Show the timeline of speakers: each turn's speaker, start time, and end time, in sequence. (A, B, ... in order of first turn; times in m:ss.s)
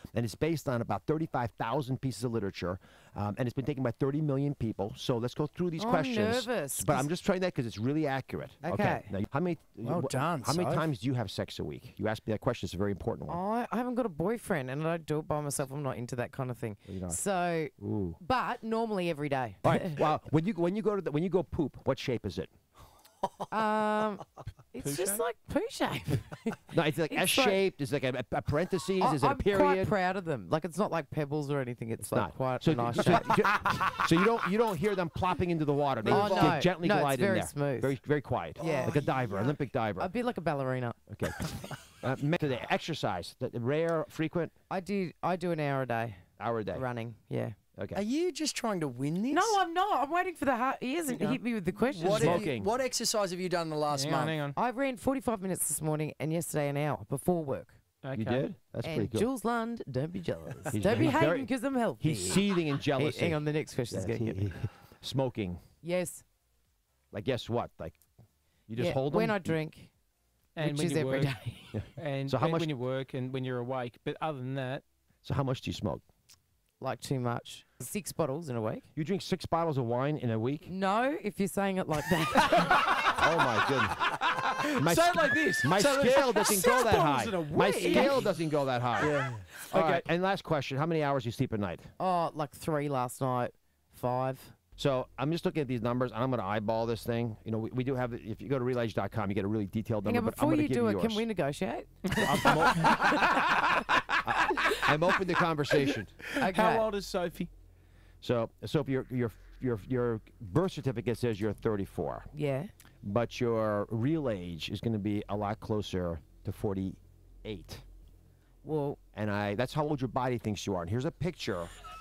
0:00.1-0:13.4 A
0:05.8-0:07.1 B
0:08.6-0:09.1 B
0:09.8-0:10.9 C
0:13.3-0:20.0 B
0:16.9-0:17.2 A
0:17.8-0:18.2 A
0:19.6-0:22.5 A
0:23.5-0:27.6 B
0:24.8-0:25.2 D
0:26.7-0:29.9 A
0:29.0-0:33.8 B
0:32.0-0:40.1 A
0:36.0-0:36.6 C
0:36.0-0:38.0 B
0:38.6-0:39.0 B
0:38.6-0:39.6 C
0:39.9-0:41.0 B
0:41.1-0:44.5 A
0:44.7-0:47.6 B
0:46.4-0:46.8 A
0:47.8-0:48.0 A
0:47.9-0:49.6 C
0:49.3-0:52.4 B
0:51.8-0:54.4 C
0:52.1-0:52.7 A
0:53.9-0:54.6 D
0:54.6-0:57.8 B
0:58.0-0:58.4 D
0:58.1-0:59.3 A
0:58.8-1:04.5 B
1:00.7-1:05.6 A
1:05.8-1:06.2 B
1:07.1-1:08.0 A
1:08.7-1:09.4 A
1:08.8-1:09.9 B
1:10.6-1:11.4 D
1:10.6-1:11.8 B
1:11.7-1:12.7 A
1:12.0-1:14.8 D
1:15.2-1:16.0 A
1:16.8-1:18.8 B
1:18.9-1:20.7 A
1:20.6-1:22.9 B
1:22.3-1:28.3 D
1:23.0-1:24.1 A
1:24.8-1:31.9 A
1:27.8-1:28.3 B
1:29.0-1:30.0 D
1:29.0-1:29.4 C
1:32.0-1:34.5 B
1:34.8-1:41.2 A
1:40.0-1:43.8 B
1:42.2-1:43.6 A
1:42.3-1:43.4 D
1:44.2-1:46.2 A
1:45.9-1:47.5 D
1:46.4-1:46.9 B
1:48.2-1:52.3 A
1:52.3-1:52.7 B
1:53.0-1:57.8 A
1:58.6-1:59.0 B
1:59.1-2:01.7 A